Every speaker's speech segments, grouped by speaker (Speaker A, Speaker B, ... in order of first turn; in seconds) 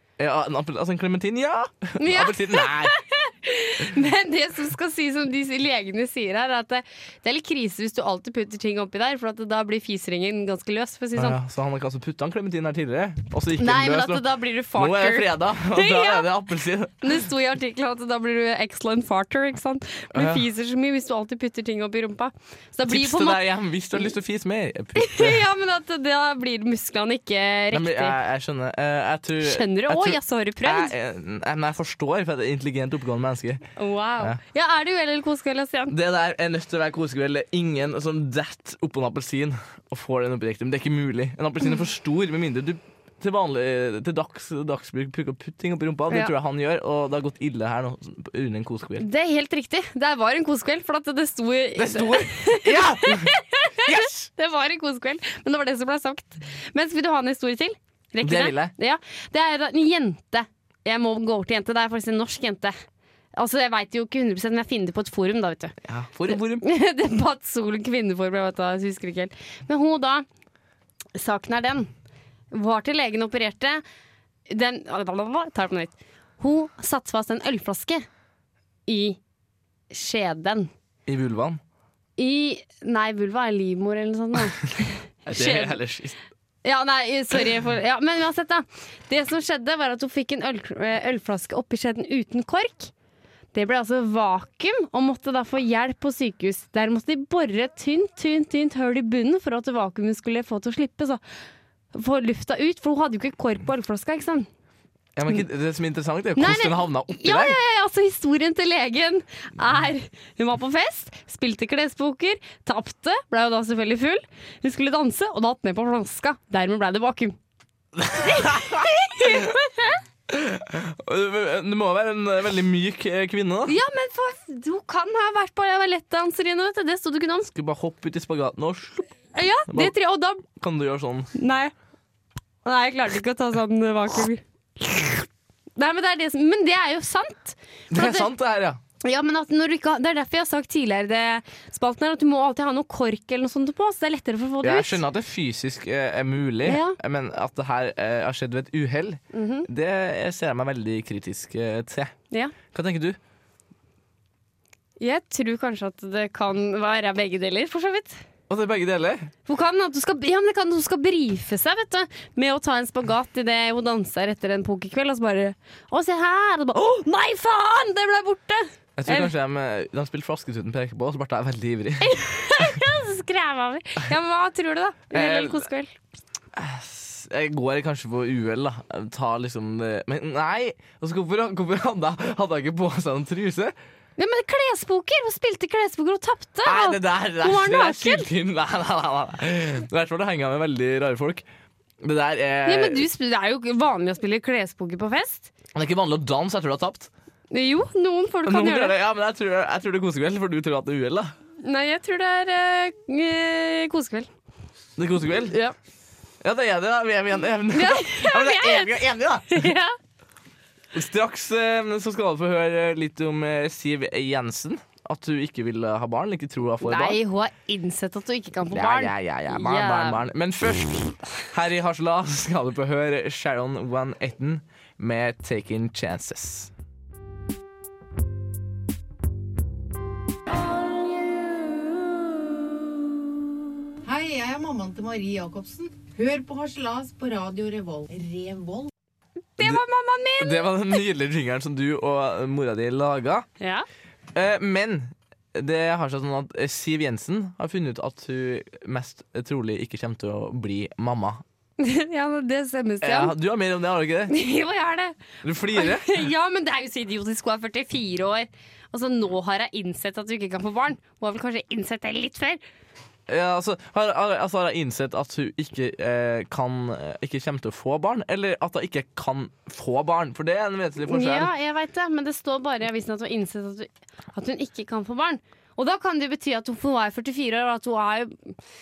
Speaker A: 0.2-2.9, 11.2-17.0, 20.1-20.4, 22.9-25.4, 27.7-33.6, 35.9-49.0, 51.8-54.3, 58.2-58.7, 65.9-66.6, 81.0-81.6, 85.2-86.2, 105.2-107.5, 118.0-118.8, 120.3-123.7, 127.5-129.1, 130.5-131.3, 137.9-138.8, 144.6-152.1, 152.7-153.2, 158.5-159.3, 169.0-172.2, 175.1-175.6, 176.5-183.7, 186.6-191.4, 192.0-193.0, 195.7-197.1, 198.4-201.3, 205.0-205.6, 206.4-209.7, 210.9-217.2, 218.7-226.7, 240.4-243.5, 244.3-251.4, 253.0-254.3, 255.4-256.1, 263.3-271.5
Speaker B: 2.0-11.4, 13.6-16.3, 17.0-23.4, 25.0-28.2, 29.4-30.9, 33.8-35.9, 49.0-62.7, 63.3-65.7, 66.3-70.2, 71.1-71.9, 72.5-73.8, 74.5-78.0, 78.9-79.2, 79.9-80.7, 82.2-85.8, 86.6-92.9, 93.5-101.2, 101.9-104.5, 106.3-117.4, 118.1-120.0, 123.7-127.5, 129.3-130.4, 131.3-131.7, 132.6-135.2, 135.8-138.3, 139.0-145.0, 146.6-147.0, 149.3-149.7, 155.0-158.2, 159.5-169.3, 172.0-175.9, 184.2-188.3, 192.7-195.5, 197.5-198.9, 201.6-204.3, 205.5-205.7, 207.7-208.9, 209.5-209.9, 216.8-220.2, 239.6-241.0, 243.6-243.8, 251.8-253.3, 254.3-262.6, 271.1-278.6
Speaker C: 234.0-238.9